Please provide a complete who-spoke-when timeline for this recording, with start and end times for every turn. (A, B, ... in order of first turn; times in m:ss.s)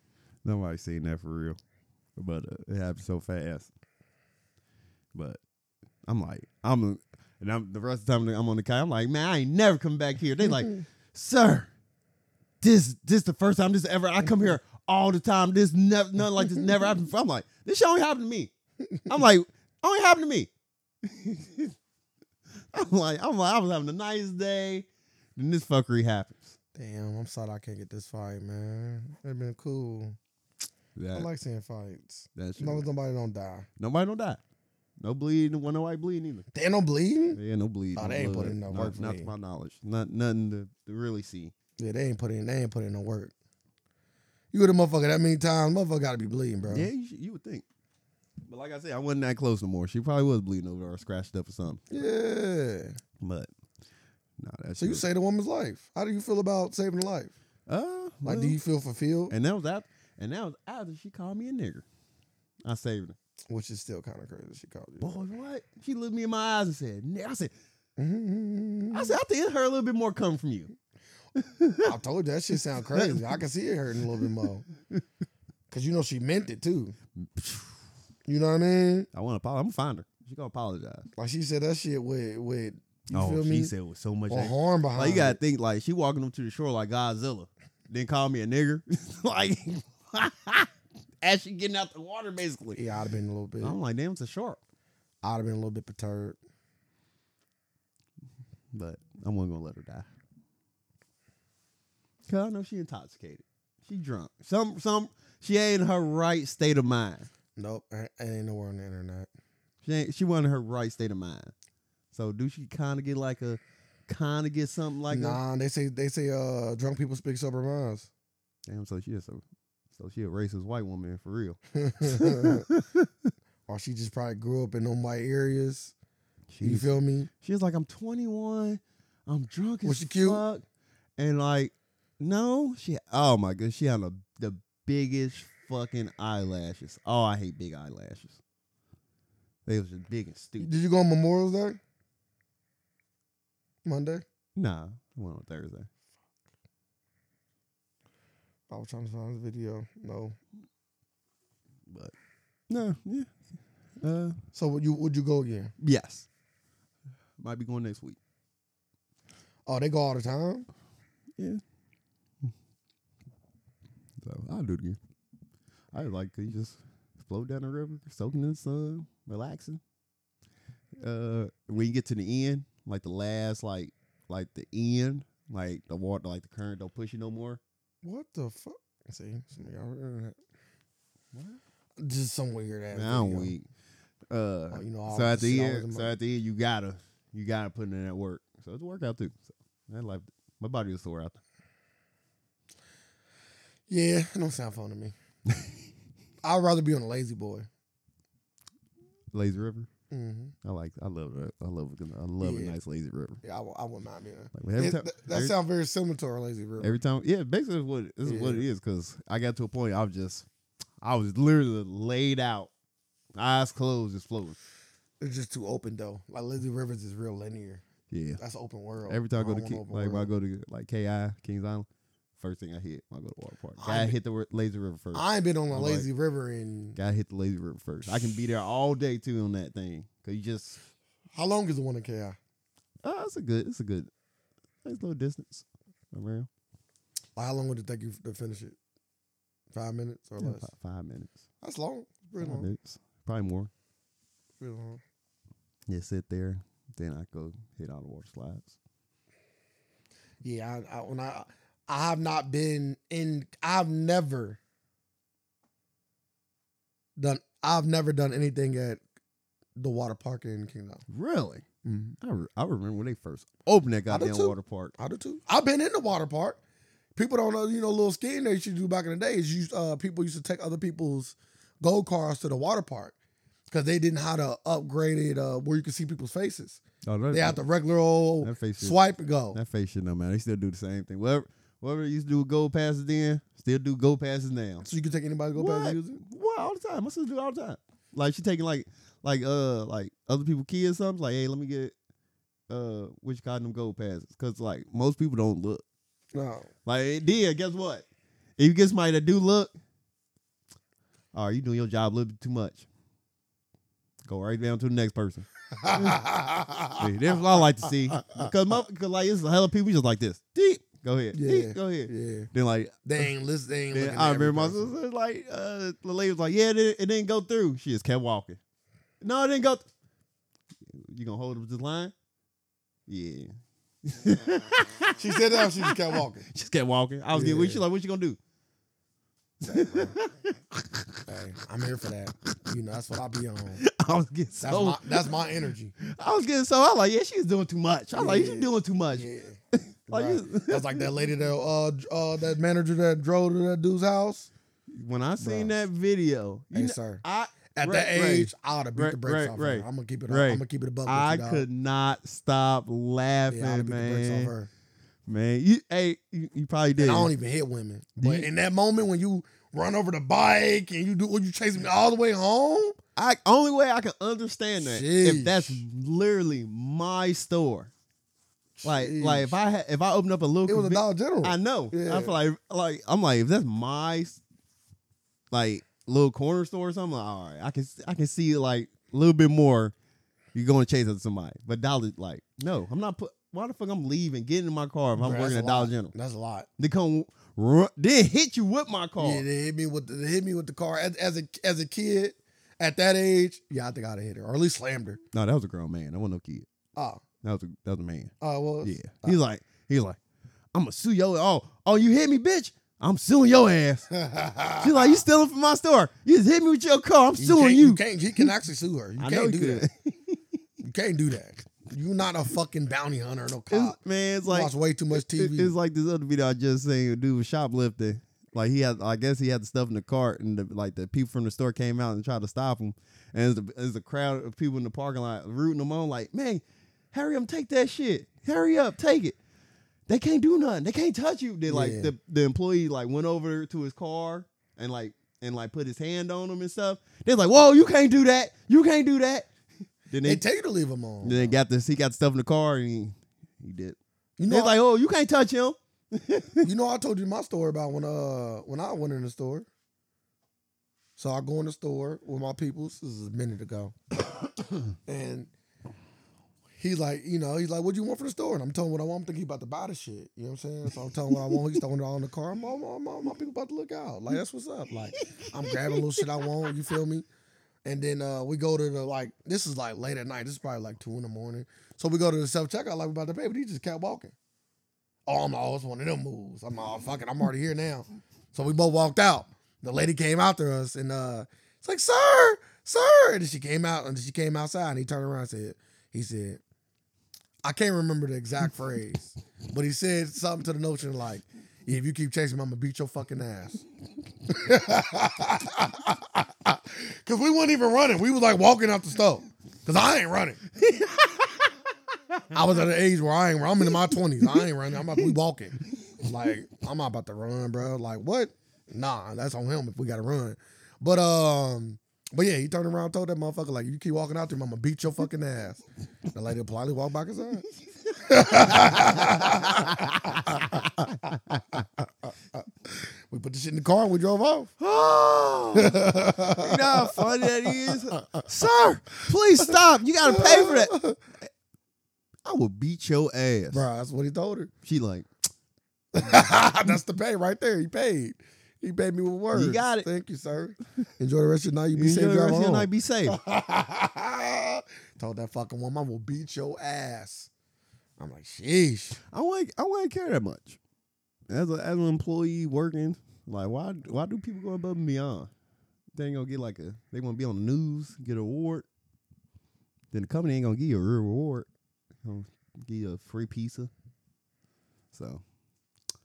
0:00.4-0:01.6 A
0:02.2-0:03.7 A
0:05.2-0:05.4 A
0:06.1-0:11.7 A
0:12.6-0:18.5 A
0:19.1-0:20.5 A
0:21.0-0:21.7 A
0:22.7-0:26.5 A
0:26.8-0:30.2 B
0:31.0-0:31.3 A
0:31.1-0:33.7 B
0:32.4-0:32.9 A
0:33.8-0:34.4 A
0:35.0-0:36.5 A
0:36.5-0:37.4 B
0:37.4-0:41.5 A
0:38.0-0:39.3 B
0:41.8-0:43.3 B
0:44.5-0:46.9 B
0:46.7-0:47.6 A
0:48.5-0:51.8 A
0:51.9-0:53.0 B
0:53.2-0:53.5 A
0:54.4-0:55.1 A
0:54.8-0:57.4 B
0:57.7-0:58.6 A
0:58.2-0:59.3 B
0:59.3-1:01.8 A
1:02.6-1:03.2 A
1:03.5-1:05.2 B
1:05.0-1:07.5 A
1:08.0-1:09.2 B
1:08.9-1:10.7 A
1:11.4-1:11.9 A
1:11.8-1:14.7 B
1:12.9-1:13.4 A
1:15.7-1:17.0 B
1:17.2-1:17.8 A
1:18.3-1:19.1 B
1:19.1-1:21.1 A
1:21.2-1:23.7 B
1:23.1-1:32.8 A
1:24.3-1:25.4 B
1:32.8-1:33.8 B
1:33.6-1:34.6 A
1:35.2-1:36.4 B
1:38.7-1:40.1 A
1:42.3-1:47.3 A
1:47.6-1:49.3 B
1:49.8-1:51.5 A
1:52.1-1:55.4 A
1:55.1-1:58.1 B
1:58.7-1:59.4 A
2:00.0-2:03.3 A
2:01.8-2:02.7 B
2:03.7-2:05.9 B
2:06.5-2:10.6 A
2:06.6-2:07.3 B
2:09.8-2:10.4 B
2:11.2-2:18.4 A
2:19.7-2:20.7 A
2:20.6-2:21.8 B
2:23.8-2:24.2 B
2:24.6-2:25.9 A
2:28.7-2:30.4 B
2:31.9-2:32.1 A
2:32.7-2:33.3 A
2:34.0-2:34.4 A
2:34.5-2:35.7 B
2:35.8-2:36.3 A
2:37.4-2:38.2 A
2:39.7-2:40.7 B
2:41.4-2:41.6 A
2:44.2-2:45.0 A
2:45.9-2:49.8 A
2:51.0-2:57.6 A
2:58.0-3:00.4 B
3:01.3-3:01.6 A
3:02.0-3:03.6 B
3:02.9-3:03.7 A
3:04.3-3:11.4 A
3:04.7-3:06.2 B
3:13.9-3:15.1 B
3:16.4-3:17.7 B
3:19.3-3:19.9 A
3:20.1-3:20.5 B
3:20.6-3:23.4 A
3:22.4-3:22.8 B
3:23.4-3:27.0 B
3:24.6-3:25.6 A
3:26.8-3:30.5 A
3:28.2-3:28.6 B
3:31.0-3:32.7 A
3:33.4-3:34.6 A
3:35.2-3:37.8 B
3:38.1-3:38.4 A
3:38.4-3:40.3 B
3:39.1-3:41.9 A
3:42.4-3:46.1 A
3:43.8-3:44.2 B
3:45.1-3:47.0 B
3:47.0-3:50.8 A
3:51.3-3:52.4 B
3:53.0-3:54.1 A
3:54.8-3:56.5 A
3:57.4-3:58.8 B
3:59.7-4:00.7 B
4:00.4-4:01.4 A
4:01.6-4:02.7 B
4:02.4-4:03.7 A
4:04.6-4:05.0 B
4:05.9-4:08.8 A
4:10.4-4:14.6 B
4:17.2-4:19.0 B
4:19.8-4:21.0 B
4:21.1-4:21.6 A
4:21.8-4:22.2 B
4:22.2-4:24.9 A
4:24.1-4:26.6 B
4:27.2-4:33.2 B
4:33.7-4:36.8 B
4:37.1-4:37.6 A
4:37.3-4:39.6 B
4:38.4-4:39.0 A
4:39.5-4:44.9 A
4:44.8-4:46.2 B
4:45.6-4:51.9 A
4:52.7-4:55.8 A
4:56.3-4:56.7 B
4:56.9-4:58.1 A
4:58.6-4:59.7 A
5:01.3-5:02.9 A
5:04.2-5:06.2 A
5:05.7-5:07.3 B
5:07.0-5:13.3 A
5:08.1-5:08.5 B
5:11.3-5:12.5 B
5:13.0-5:14.9 B
5:13.9-5:18.6 A
5:19.2-5:19.9 A
5:20.9-5:22.1 A
5:23.1-5:23.5 A
5:24.0-5:28.4 A
5:25.2-5:26.5 B
5:27.3-5:27.8 B
5:29.6-5:31.2 A
5:29.7-5:30.2 B
5:31.3-5:33.8 B
5:33.8-5:35.4 A
5:34.6-5:36.0 B
5:36.0-5:41.1 A
5:38.1-5:39.6 B
5:40.1-5:44.5 B
5:44.9-5:54.5 A
5:45.4-5:45.8 B
5:46.7-5:47.2 B
5:47.7-5:51.7 B
5:53.5-5:54.7 B
5:55.3-5:57.3 A
5:57.0-6:03.0 B
5:58.2-5:58.5 A
6:03.2-6:07.9 A
6:04.8-6:05.8 B
6:08.8-6:09.6 B
6:08.8-6:14.4 A
6:10.7-6:12.4 B
6:15.5-6:19.9 A
6:20.5-6:26.1 A
6:25.2-6:26.7 B
6:26.8-6:29.4 A
6:29.2-6:35.2 B
6:35.3-6:36.7 A
6:37.0-6:37.2 B
6:37.4-6:40.2 A
6:38.4-6:39.4 B
6:40.7-6:44.1 A
6:44.1-6:45.2 B
6:44.8-6:48.5 A
6:47.4-6:49.9 B
6:49.2-6:50.4 A
6:50.8-6:55.7 B
6:53.7-7:09.4 A
7:10.1-7:19.5 A
7:11.7-7:12.1 B
7:20.1-7:20.4 A
7:20.2-7:21.6 B
7:21.2-7:24.0 A
7:24.4-7:24.8 B
7:24.5-7:26.7 A
7:26.6-7:29.7 B
7:31.2-7:34.0 B
7:35.0-7:35.5 B
7:36.8-7:47.3 B
7:41.3-7:41.7 A
7:45.2-7:46.9 A
7:47.8-7:54.3 B
7:55.3-8:06.6 B
8:07.6-8:13.8 B
8:14.5-8:20.6 B
8:20.8-8:21.7 A
8:22.5-8:37.7 B
8:23.8-8:25.3 A
8:38.1-8:41.8 A
8:38.2-8:42.0 B
8:42.9-8:44.8 B
8:44.8-8:50.9 A
8:45.7-8:48.4 B
8:50.2-8:51.2 B
8:52.4-8:53.9 A
8:53.7-8:54.7 B
8:54.8-8:55.3 A
8:56.1-9:07.5 B
8:59.5-9:00.1 A
9:01.9-9:03.4 A
9:08.2-9:09.2 B
9:09.3-9:10.8 A
9:11.5-9:15.5 A
9:16.1-9:18.9 A
9:20.1-9:21.7 A
9:22.2-9:23.9 A
9:25.1-9:25.4 A